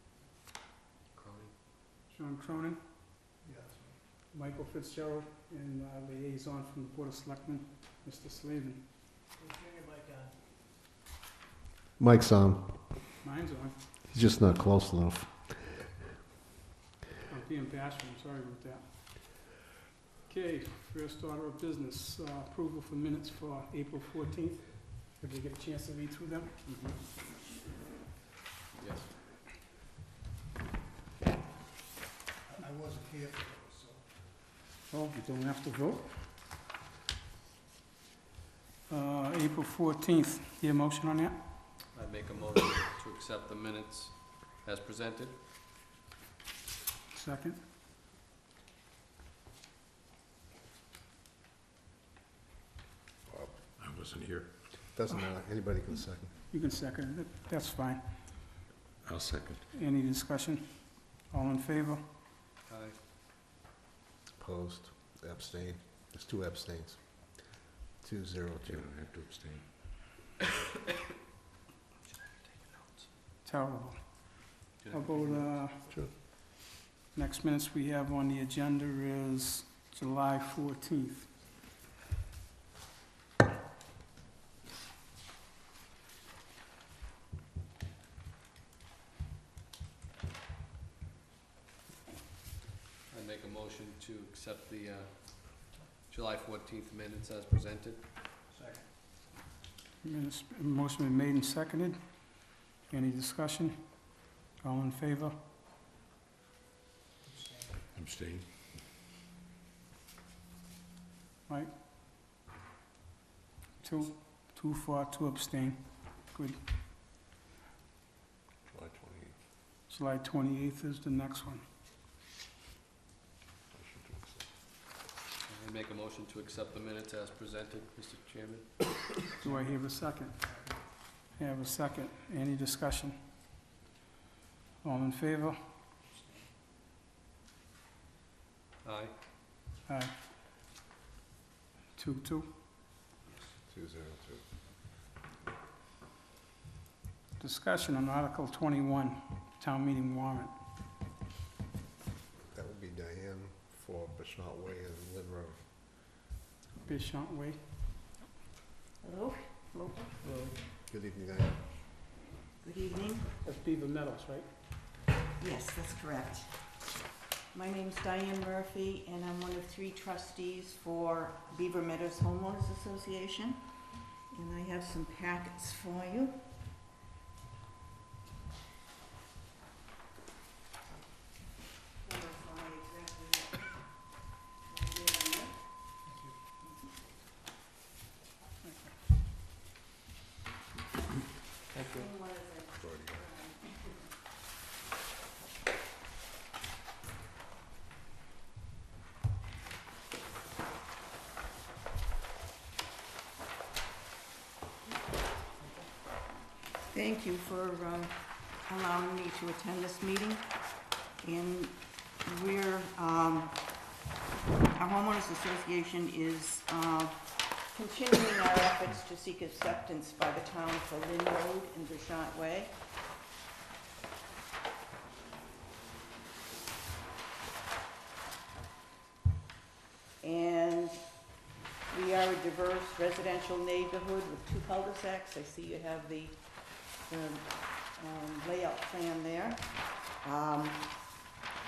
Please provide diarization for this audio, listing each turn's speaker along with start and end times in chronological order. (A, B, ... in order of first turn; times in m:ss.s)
0:01.1-0:01.5 A
0:02.1-0:02.8 B
0:03.4-0:03.9 C
0:04.3-0:08.8 B
0:09.4-0:10.4 C
0:12.0-0:13.0 D
0:13.2-0:13.8 B
0:14.1-0:15.8 D
0:17.3-0:19.6 B
0:20.3-0:26.6 B
0:26.6-0:27.0 A
0:28.8-0:29.1 A
0:32.5-0:34.0 C
0:34.9-0:36.3 B
0:38.9-0:41.4 B
0:41.9-0:45.4 A
0:47.1-0:47.6 B
0:53.3-0:53.6 D
0:53.8-0:54.5 E
0:54.8-0:56.3 D
0:56.5-0:58.5 B
0:59.0-0:59.6 E
0:59.7-1:02.0 B
1:02.7-1:03.0 A
1:04.4-1:07.4 D
1:08.0-1:08.9 D
1:08.7-1:09.6 E
1:12.0-1:13.1 A
1:13.4-1:15.8 B
1:14.8-1:15.5 A
1:17.1-1:21.4 B
1:33.1-1:38.0 A
1:38.5-1:38.8 C
1:40.0-1:45.4 B
1:47.2-1:47.7 C
1:47.9-1:48.5 E
1:53.8-1:56.6 B
1:58.7-1:59.3 D
1:59.9-2:01.6 B
2:03.7-2:04.4 D
2:05.5-2:09.0 A
2:09.4-2:10.4 B
2:11.3-2:13.2 B
2:14.8-2:15.6 B
2:18.8-2:19.1 A
2:19.8-2:20.2 B
2:21.9-2:22.5 B
2:23.6-2:24.4 D
2:27.4-2:30.5 B
2:32.5-2:35.6 D
2:36.8-2:37.6 B
2:39.0-2:40.2 F
2:40.8-2:41.8 D
2:42.6-2:43.3 F
2:43.4-2:44.5 B
2:45.4-2:46.8 F
2:47.5-2:56.6 F
3:02.0-3:04.1 F
3:04.6-3:05.9 F
3:06.0-3:06.3 C
3:08.6-3:08.9 B
3:11.7-3:12.1 A
3:11.9-3:13.7 F
3:12.7-3:13.4 D
3:26.9-3:30.5 F
3:31.2-3:33.7 F
3:34.7-3:42.7 F
3:50.2-3:51.1 F
3:51.9-4:01.0 F